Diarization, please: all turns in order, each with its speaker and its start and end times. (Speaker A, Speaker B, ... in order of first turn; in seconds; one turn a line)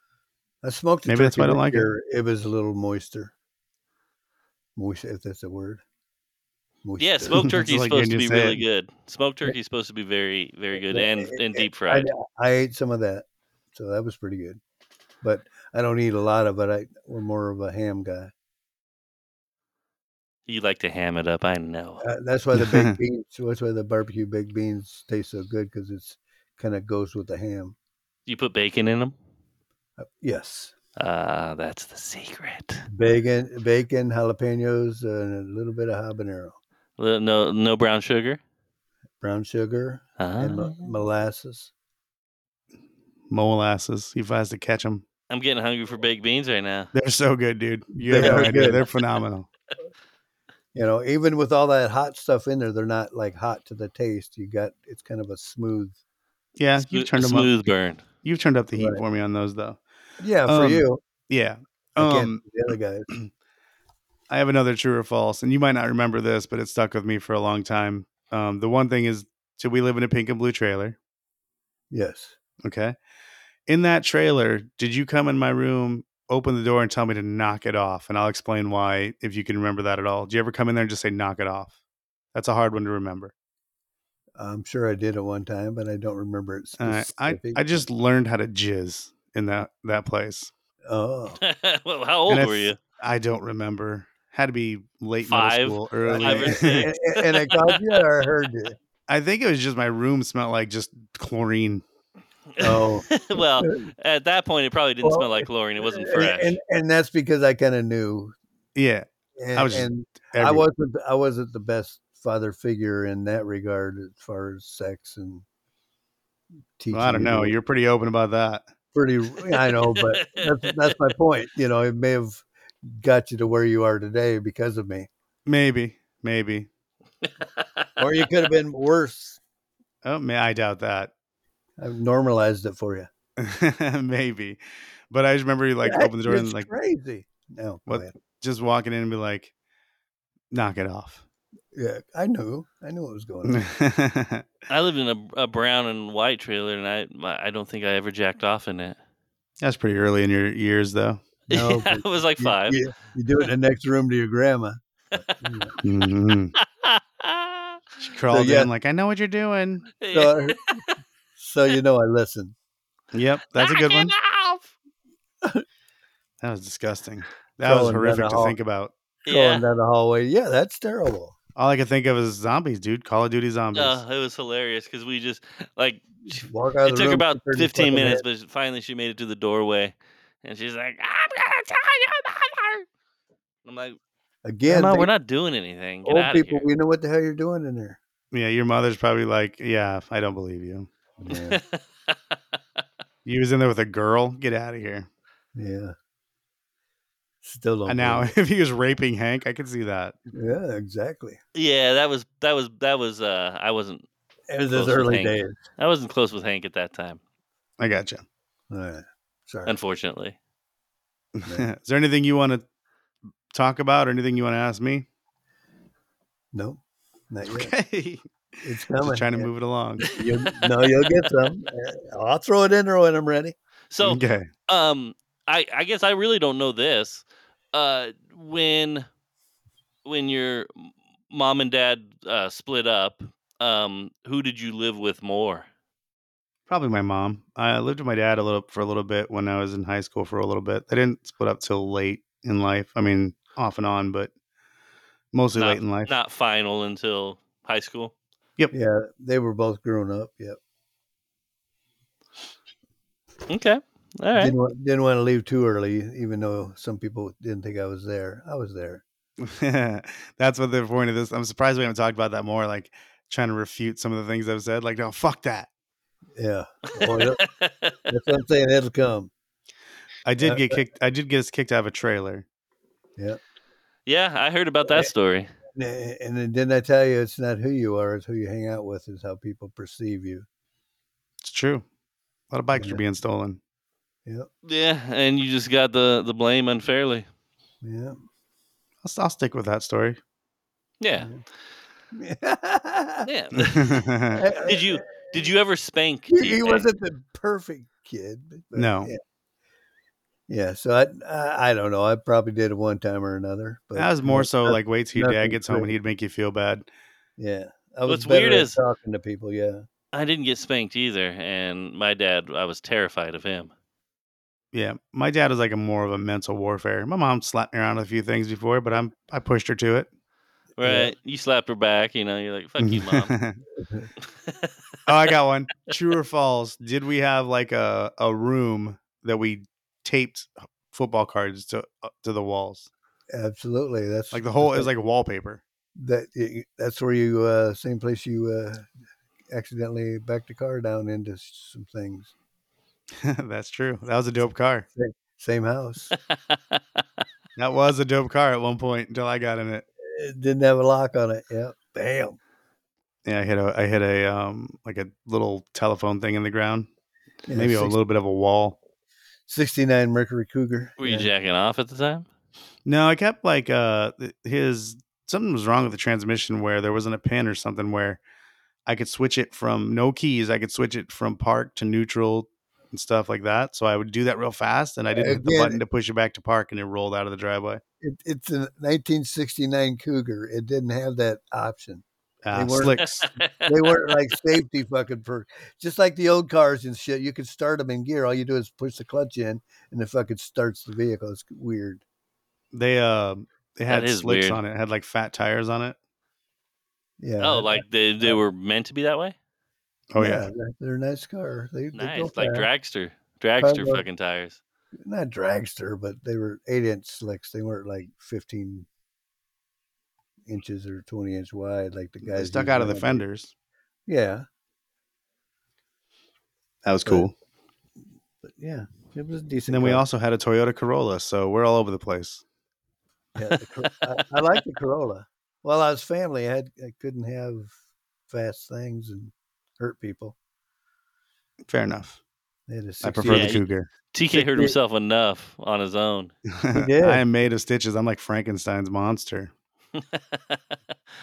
Speaker A: 0.6-3.3
Speaker B: 1.1-1.9
Speaker A: 4.8-5.8
Speaker A: 6.8-7.5
Speaker C: 7.0-12.1
Speaker B: 7.3-8.6
Speaker A: 10.8-14.6
Speaker A: 15.2-18.3
Speaker C: 20.5-22.1
Speaker A: 22.0-27.8
Speaker B: 22.6-23.0
Speaker C: 28.3-29.1
Speaker A: 30.0-30.7
Speaker C: 31.0-32.9
Speaker A: 32.9-36.6
Speaker C: 37.0-38.4
Speaker A: 39.2-41.7
Speaker C: 40.2-40.9
Speaker B: 43.3-45.0
Speaker C: 45.3-46.9
Speaker B: 46.9-49.5
Speaker A: 48.0-48.8
Speaker C: 48.1-48.7
Speaker A: 50.7-56.0
Speaker B: 56.6-57.5
Speaker C: 56.8-58.0
Speaker B: 58.2-59.8
Speaker A: 58.8-59.0
Speaker A: 60.2-61.0
Speaker B: 60.5-62.4
Speaker A: 62.0-63.1
Speaker B: 64.3-71.0
Speaker A: 71.9-72.4
Speaker B: 72.6-73.0
Speaker B: 73.7-81.8
Speaker B: 82.3-83.3
Speaker A: 84.4-87.8
Speaker B: 86.8-90.5
Speaker A: 90.9-91.4
Speaker C: 91.4-92.8
Speaker B: 92.3-96.8
Speaker C: 95.2-98.0
Speaker A: 96.0-98.8
Speaker B: 99.1-101.8
Speaker C: 102.5-106.6
Speaker A: 102.6-103.9
Speaker A: 105.0-108.3
Speaker B: 108.8-110.7
Speaker A: 109.4-115.5
Speaker A: 116.8-117.5
Speaker B: 116.9-118.7
Speaker A: 118.9-125.1
Speaker C: 119.5-120.9
Speaker B: 125.5-126.7
Speaker C: 127.2-127.9
Speaker A: 128.0-129.4
Speaker B: 130.0-131.1
Speaker A: 131.8-133.1
Speaker B: 133.4-136.7
Speaker A: 135.8-138.2
Speaker B: 137.9-139.5
Speaker B: 140.5-141.2
Speaker A: 141.7-143.6
Speaker B: 143.4-144.5
Speaker C: 144.7-149.0
Speaker B: 149.6-151.2
Speaker C: 151.5-152.8
Speaker A: 151.5-155.8
Speaker B: 155.8-156.5
Speaker C: 156.6-157.8
Speaker B: 158.0-159.9
Speaker A: 158.3-158.7
Speaker C: 160.0-161.0
Speaker A: 160.1-160.8
Speaker A: 161.4-162.6
Speaker B: 163.1-164.1
Speaker C: 163.6-164.7
Speaker B: 166.4-168.9
Speaker A: 167.6-168.6
Speaker C: 169.3-169.6
Speaker A: 169.3-171.4
Speaker B: 171.6-174.0
Speaker C: 173.8-182.9
Speaker A: 176.3-178.2
Speaker C: 183.7-184.0
Speaker A: 184.4-185.1
Speaker C: 184.7-186.7
Speaker A: 186.1-188.0
Speaker B: 188.3-190.9
Speaker A: 191.2-191.6
Speaker C: 191.3-192.4
Speaker B: 193.2-195.1
Speaker A: 195.6-195.9
Speaker A: 197.4-198.3
Speaker B: 197.9-200.2
Speaker A: 200.3-201.4
Speaker C: 201.6-204.1
Speaker A: 204.5-205.6
Speaker C: 204.7-207.2
Speaker B: 207.8-208.2
Speaker A: 208.7-209.7
Speaker C: 209.7-210.4
Speaker B: 211.4-212.6
Speaker B: 213.5-215.1
Speaker A: 216.5-217.7
Speaker B: 217.4-218.2
Speaker A: 218.6-219.5
Speaker B: 219.0-220.1
Speaker A: 220.1-223.6
Speaker C: 220.4-221.2
Speaker C: 223.9-229.1
Speaker B: 224.0-224.5
Speaker C: 230.1-235.7
Speaker B: 236.7-244.3
Speaker B: 245.3-246.1
Speaker C: 245.6-248.1
Speaker A: 248.7-250.6
Speaker C: 253.5-254.5
Speaker A: 254.4-259.0
Speaker B: 259.4-265.7
Speaker A: 266.4-267.5
Speaker C: 266.9-268.0
Speaker A: 268.1-269.3
Speaker B: 270.2-272.4
Speaker A: 270.4-270.8
Speaker C: 274.1-275.5
Speaker A: 275.8-280.5
Speaker B: 281.4-281.9
Speaker B: 282.5-283.6
Speaker A: 282.7-283.0
Speaker C: 284.6-287.3
Speaker A: 287.8-288.2
Speaker B: 289.0-290.2
Speaker C: 291.0-291.3
Speaker A: 292.1-293.3
Speaker C: 293.2-296.9
Speaker B: 293.6-294.4
Speaker A: 294.4-295.3
Speaker A: 296.3-299.2
Speaker B: 298.8-299.1
Speaker A: 300.5-305.9
Speaker B: 304.0-306.9
Speaker A: 307.4-309.8
Speaker C: 308.1-308.8
Speaker C: 310.1-313.7
Speaker B: 314.7-320.1
Speaker C: 320.8-323.3
Speaker A: 320.8-321.1
Speaker B: 322.8-323.6
Speaker A: 323.8-324.1
Speaker C: 324.2-324.7
Speaker B: 325.1-332.9
Speaker A: 333.3-334.9
Speaker B: 334.3-335.6
Speaker A: 336.0-338.9
Speaker A: 339.5-342.3
Speaker B: 343.2-344.9
Speaker A: 344.9-346.1
Speaker C: 346.3-347.0
Speaker B: 347.6-349.9
Speaker A: 350.0-352.4
Speaker B: 353.2-356.9
Speaker A: 357.5-358.0
Speaker B: 357.5-358.8
Speaker A: 359.5-361.3
Speaker C: 361.0-362.3
Speaker B: 362.9-368.2
Speaker B: 368.9-377.8
Speaker A: 375.1-375.8
Speaker A: 378.0-383.1
Speaker B: 382.4-383.3
Speaker C: 383.2-384.1
Speaker A: 383.6-392.0
Speaker B: 392.7-396.0
Speaker C: 393.9-394.6
Speaker A: 397.2-398.4
Speaker C: 397.4-399.4
Speaker B: 400.1-400.5
Speaker A: 400.2-402.7
Speaker C: 401.9-404.6
Speaker A: 403.6-404.0
Speaker A: 405.0-408.9
Speaker A: 410.5-413.2
Speaker B: 412.2-413.5
Speaker A: 414.1-414.5
Speaker B: 416.9-417.3
Speaker A: 418.4-420.0
Speaker B: 419.7-422.4
Speaker A: 423.4-427.7
Speaker C: 423.5-424.2
Speaker A: 428.3-430.4
Speaker B: 431.7-432.2
Speaker A: 432.7-433.6
Speaker B: 433.0-433.9
Speaker C: 433.3-436.3
Speaker A: 434.3-434.8
Speaker B: 436.5-439.5
Speaker A: 436.7-437.2
Speaker C: 439.9-440.8